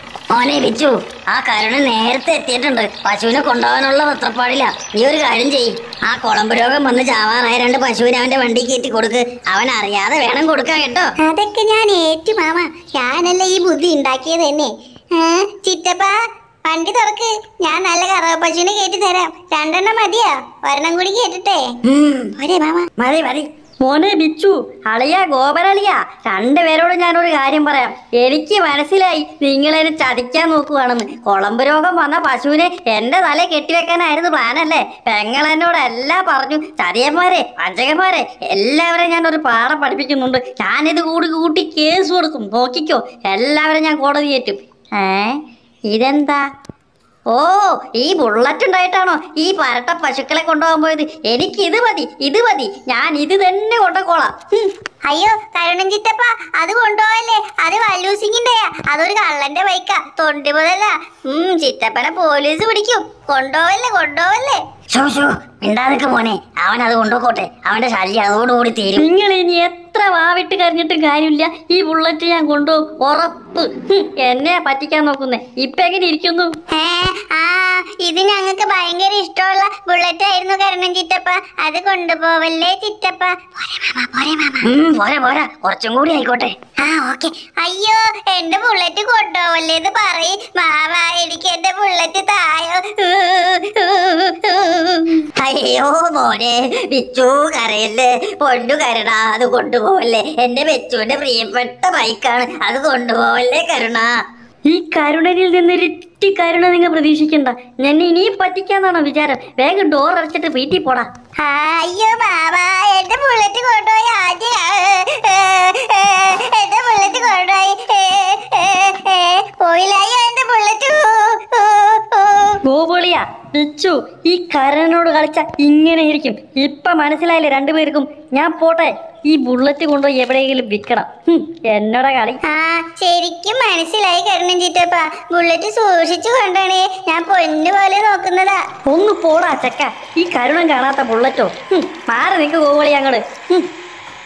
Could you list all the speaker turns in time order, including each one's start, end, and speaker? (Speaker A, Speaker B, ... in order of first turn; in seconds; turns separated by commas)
Speaker A: 0.3-11.1, Speaker B: 11.2-16.1, Speaker B: 16.7-21.7, Speaker A: 21.9-22.4, Speaker B: 22.4-22.9, Speaker A: 23.0-23.5, Speaker C: 23.8-45.4, Speaker C: 45.9-46.4, Speaker C: 47.3-54.4, Speaker B: 55.1-64.6, Speaker A: 64.9-69.1, Speaker C: 69.0-76.5, Speaker B: 76.7-84.7, Speaker A: 84.6-86.6, Speaker B: 86.8-95.0, Speaker A: 95.4-104.1, Speaker C: 104.7-111.1, Speaker B: 111.4-122.6, Speaker C: 122.7-132.4, Speaker B: 132.4-138.6, Speaker C: 138.9-143.7